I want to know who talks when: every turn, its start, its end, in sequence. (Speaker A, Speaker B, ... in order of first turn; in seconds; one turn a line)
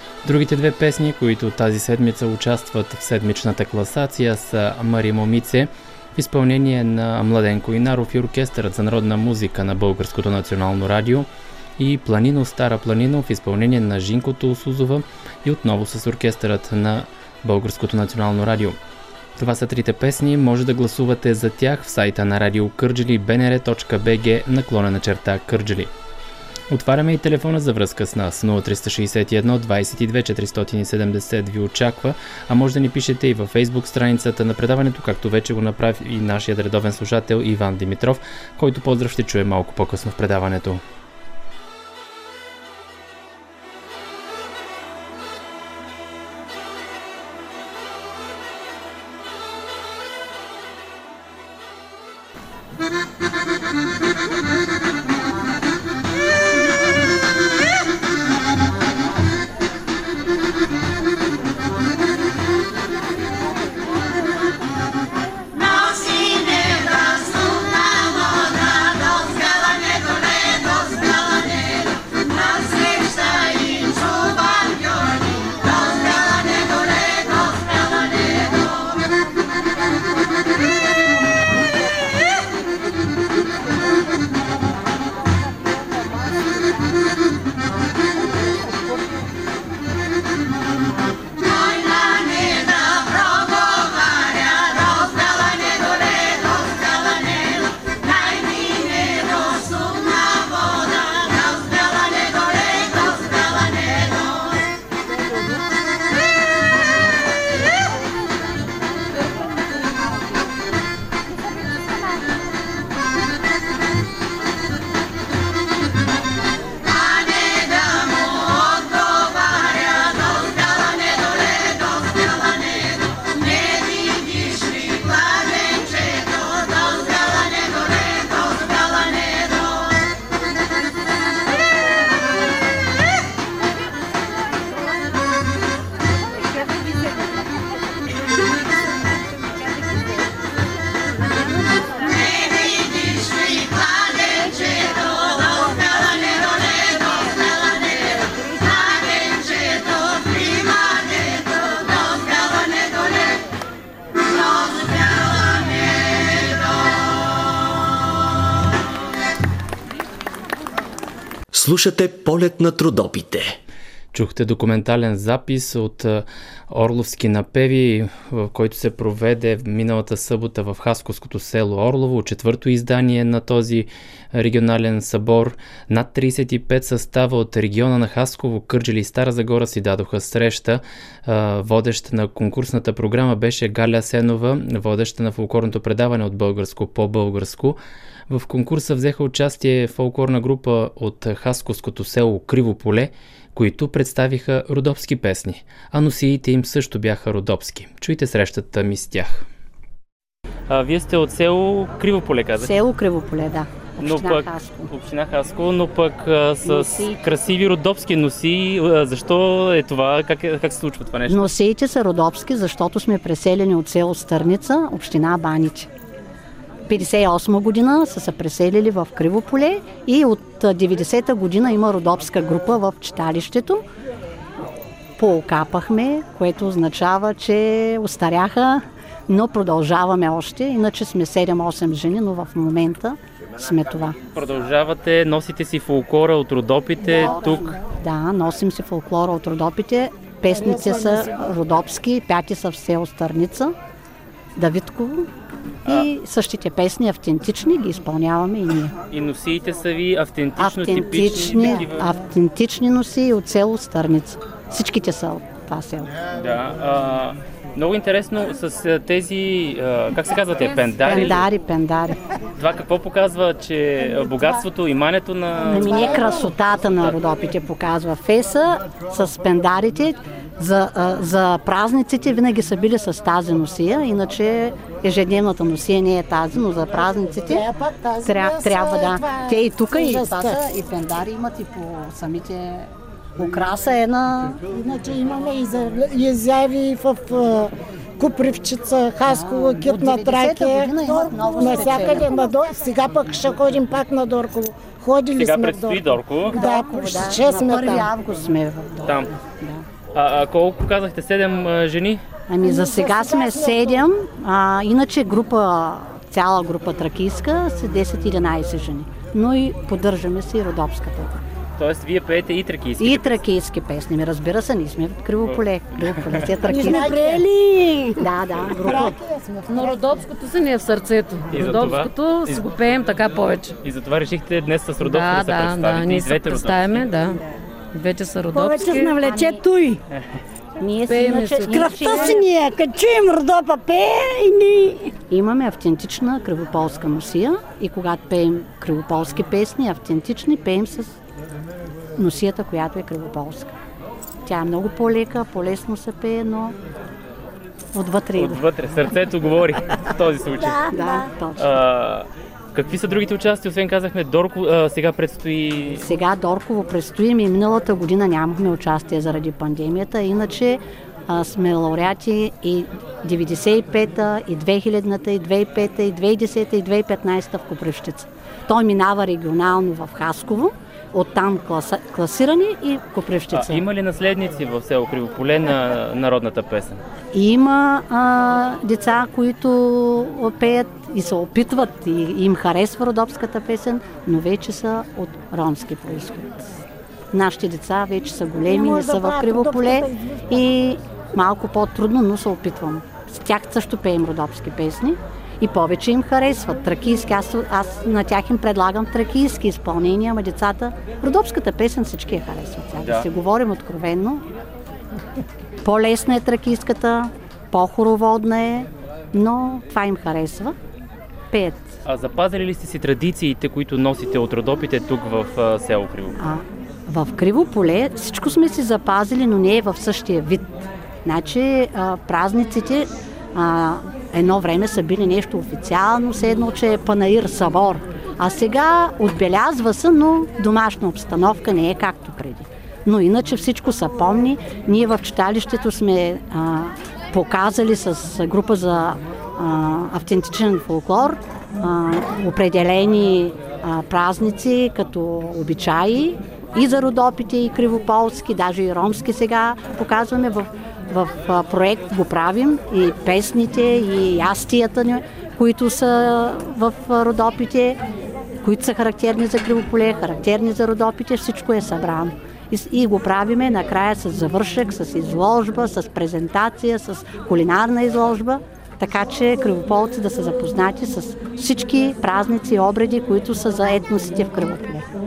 Speaker A: 0.2-18.8
Speaker A: 19.4-25.9
Speaker A: 26.7-40.8
Speaker B: 161.5-163.5
Speaker A: 164.1-199.5
Speaker A: 200.7-202.8
Speaker C: 202.6-204.9
Speaker A: 204.0-211.5
Speaker C: 206.7-207.2
Speaker C: 211.3-215.9
Speaker C: 216.9-223.9
Speaker C: 225.2-234.2
Speaker A: 234.3-237.7
Speaker C: 237.2-243.8
Speaker D: 237.2-237.5
Speaker D: 240.5-241.5
Speaker C: 244.6-245.3
Speaker C: 245.8-248.9
Speaker A: 249.1-252.1
Speaker C: 250.6-256.2
Speaker A: 256.4-261.5
Speaker C: 261.0-262.2
Speaker A: 262.6-267.2
Speaker C: 265.6-277.7
Speaker D: 277.3-280.7
Speaker C: 278.2-284.6
Speaker D: 284.6-298.1
Speaker C: 289.2-292.6
Speaker A: 295.4-296.6
Speaker C: 296.5-299.9
Speaker A: 299.0-299.3
Speaker A: 300.1-302.2
Speaker C: 302.5-311.4
Speaker D: 302.6-304.1
Speaker A: 311.8-313.4
Speaker C: 313.0-317.5
Speaker A: 315.4-316.5
Speaker D: 316.6-320.2
Speaker C: 318.2-319.2
Speaker E: 319.7-323.8
Speaker A: 321.5-322.8
Speaker A: 323.8-327.1
Speaker E: 325.0-327.4
Speaker E: 327.9-329.2
Speaker D: 328.5-330.0
Speaker C: 329.2-329.6
Speaker C: 330.8-332.5
Speaker E: 331.1-332.1
Speaker D: 331.7-335.2
Speaker C: 335.3-341.2
Speaker C: 342.2-343.7
Speaker C: 344.4-346.8
Speaker C: 347.9-348.6
Speaker A: 348.4-350.9
Speaker D: 350.8-351.3
Speaker C: 350.8-351.8
Speaker A: 351.6-356.1
Speaker C: 356.0-373.9
Speaker A: 373.5-377.0
Speaker C: 377.3-386.7
Speaker C: 387.3-404.4
Speaker D: 388.7-390.4
Speaker A: 403.0-403.3
Speaker C: 405.8-410.8
Speaker C: 411.5-411.9
Speaker A: 412.1-416.4
Speaker C: 416.4-458.0
Speaker C: 458.6-475.1